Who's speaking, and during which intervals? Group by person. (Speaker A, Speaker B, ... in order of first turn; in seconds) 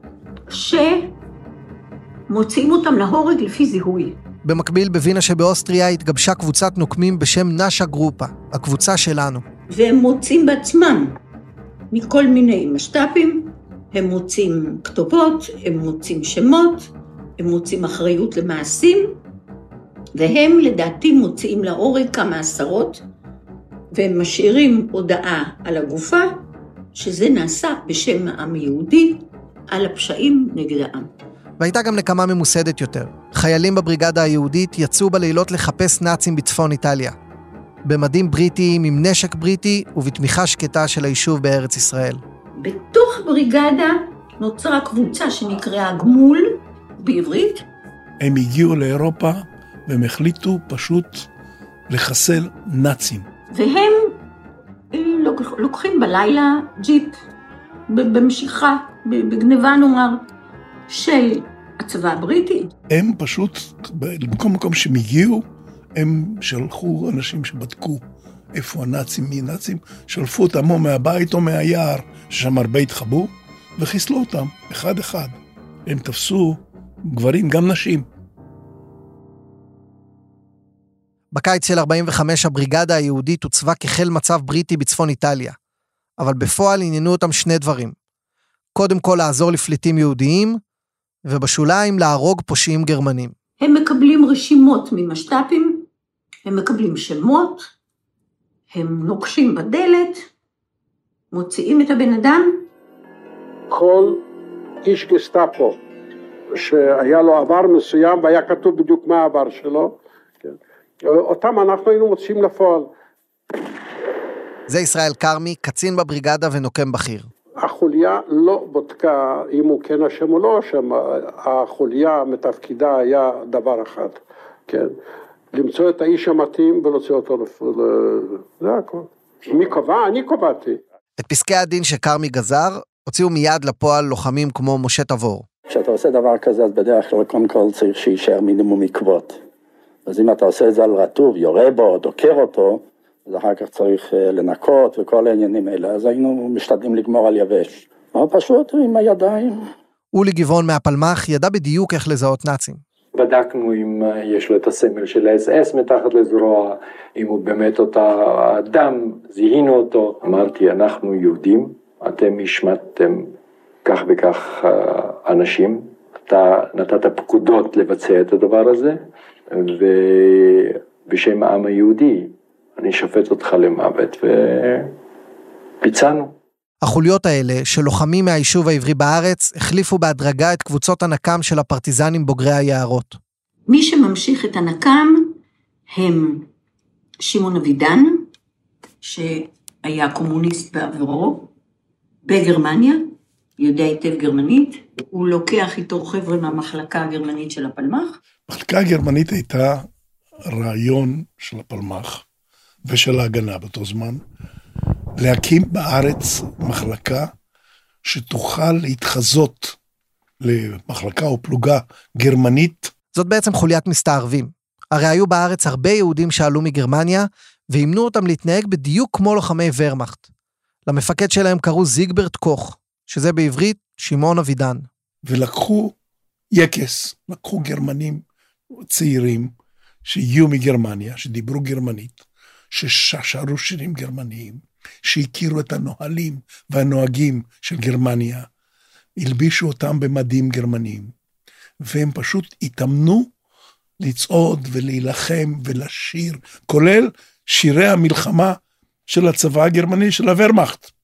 Speaker A: 0.5-1.1, 2.3-4.2, 9.7-11.2, 11.9-19.2, 20.1-23.0, 23.9-26.3, 26.9-31.1, 42.6-47.6, 53.5-54.1, 54.9-57.2, 57.9-60.2, 60.9-62.7, 93.6-95.8, 96.5-97.7, 98.7-100.2, 101.3-102.7, 183.7-185.3, 185.9-186.4, 187.2-188.2, 189.0-191.5, 192.2-193.0, 193.6-198.2
Speaker B: 4.4-9.4, 31.6-37.1, 37.8-42.2, 81.3-85.6, 86.2-88.0, 88.8-90.6, 91.2-93.3, 114.7-117.3, 131.2-135.4, 150.1-152.8, 176.8-183.2, 213.1-220.3, 220.9-224.9
Speaker C: 48.2-51.3, 51.9-53.2, 62.9-65.4, 66.0-68.0, 68.5-78.0, 198.5-199.9, 200.4-202.2, 202.8-204.2, 205.2-207.3, 208.0-209.8, 210.4-212.9, 225.2-225.9, 226.5-228.2, 228.9-229.5, 230.0-232.2, 232.7-238.4, 239.2-241.1, 241.8-243.3, 244.0-248.6, 249.1-250.9
Speaker D: 103.7-104.2, 104.8-105.8, 106.5-112.9, 117.6-124.9, 125.5-130.8
Speaker E: 135.7-139.4, 140.1-149.7
Speaker F: 153.1-163.3, 163.8-174.9, 175.8-176.3